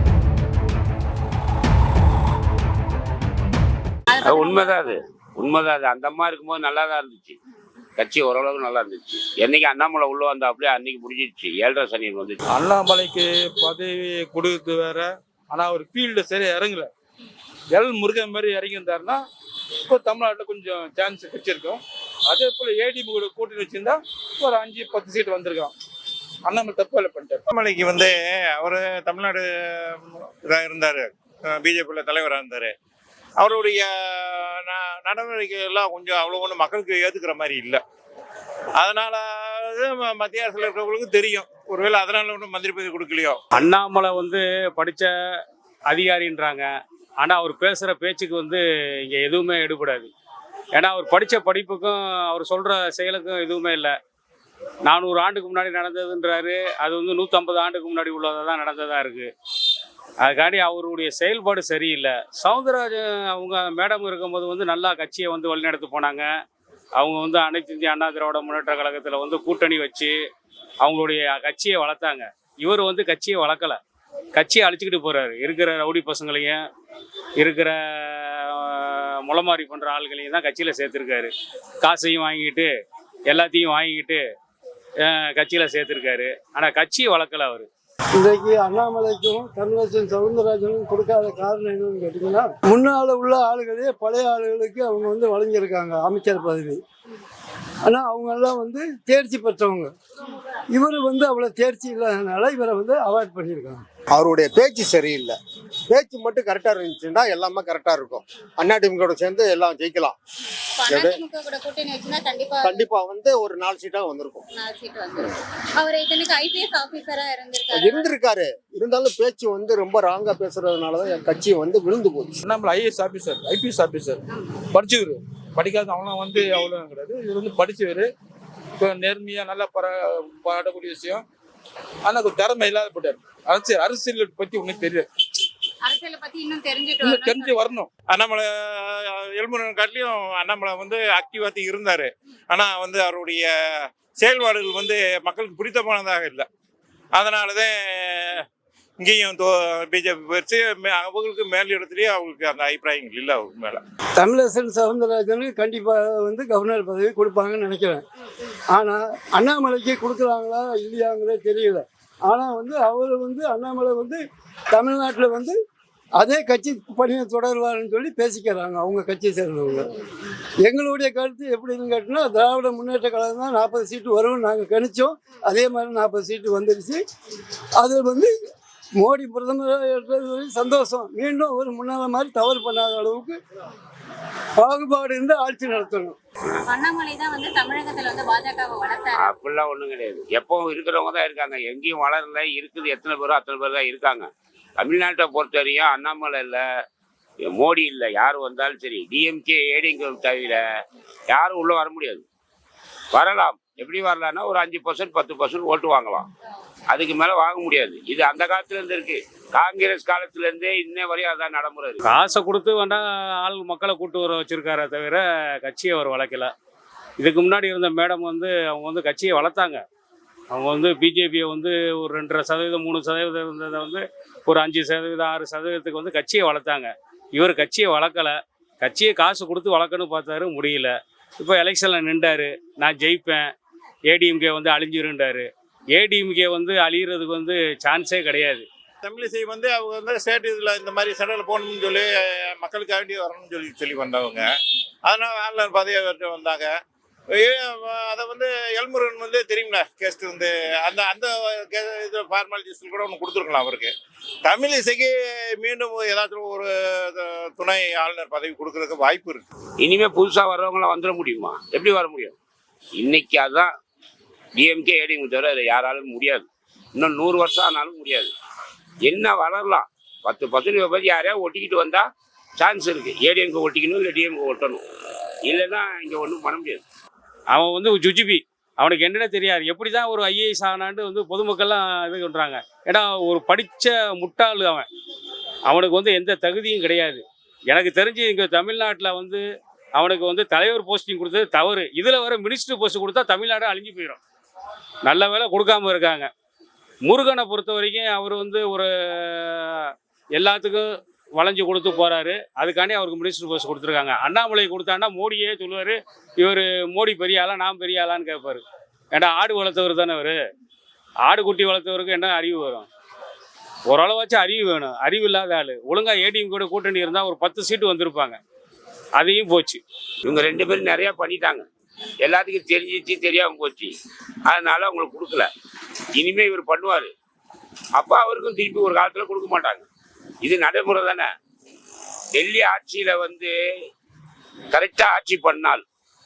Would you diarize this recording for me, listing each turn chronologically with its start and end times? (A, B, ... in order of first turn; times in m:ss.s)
0:04.1-0:04.9 A
0:04.2-0:07.4 B
0:08.0-0:12.4 B
0:12.5-0:16.9 C
0:17.7-0:19.2 C
0:19.9-0:25.7 C
0:26.4-0:27.4 C
0:27.5-0:32.7 D
0:33.4-0:37.8 D
0:38.8-0:43.4 D
0:43.5-0:50.1 E
0:50.7-0:53.9 E
0:54.8-0:59.3 E
1:00.2-1:06.3 E
1:07.0-1:10.2 E
1:10.8-1:13.8 E
1:14.3-1:16.6 E
1:17.4-1:22.7 E
1:23.3-1:24.2 E
1:25.0-1:27.7 E
1:28.2-1:36.8 F
1:37.8-1:39.9 F
1:40.7-1:43.8 F
1:44.1-1:45.4 G
1:45.9-1:50.2 G
1:50.6-1:52.8 A
1:50.9-1:51.2 G
1:52.6-1:54.4 G
1:54.5-1:58.1 A
1:57.7-2:02.4 G
2:02.5-2:04.2 C
2:04.7-2:08.1 C
2:08.8-2:11.2 C
2:12.0-2:15.1 C
2:15.8-2:17.7 A
2:17.0-2:17.9 C
2:18.1-2:23.5 D
2:24.2-2:26.5 D
2:27.1-2:28.4 D
2:29.0-2:33.8 D
2:34.2-2:45.6 F
2:46.2-2:50.0 F
2:50.6-2:57.0 F
2:57.8-2:58.3 F
2:59.0-3:03.4 F
3:04.6-3:06.2 F
3:06.7-3:09.3 A
3:09.1-3:14.3 B
3:14.8-3:16.6 B
3:17.4-3:20.6 B
3:21.3-3:22.2 B
3:23.1-3:26.3 B
3:26.9-3:32.0 B
3:32.0-3:36.5 E
3:37.2-3:39.8 E
3:40.5-3:53.5 E
3:54.1-3:58.6 E
3:59.0-4:04.5 D
4:05.0-4:06.7 D
4:07.3-4:13.9 D
4:14.4-4:19.4 D
4:19.8-4:22.4 B
4:23.0-4:23.7 B
4:24.6-4:28.3 B
4:29.0-4:32.0 B
4:32.6-4:34.8 B
4:35.5-4:36.8 B
4:37.5-4:44.9 E
4:45.7-4:49.4 E
4:50.0-4:54.2 E
4:55.0-4:56.3 E
4:57.0-5:10.4 E
5:11.2-5:12.9 E
5:13.9-5:18.4 E
5:19.2-5:19.8 E
5:20.2-5:21.7 B
5:22.2-5:23.9 B
5:24.5-5:25.5 B
5:26.2-5:27.1 B
5:28.0-5:29.9 B
5:30.4-5:31.3 B
5:32.3-5:33.5 B
5:34.7-5:35.8 B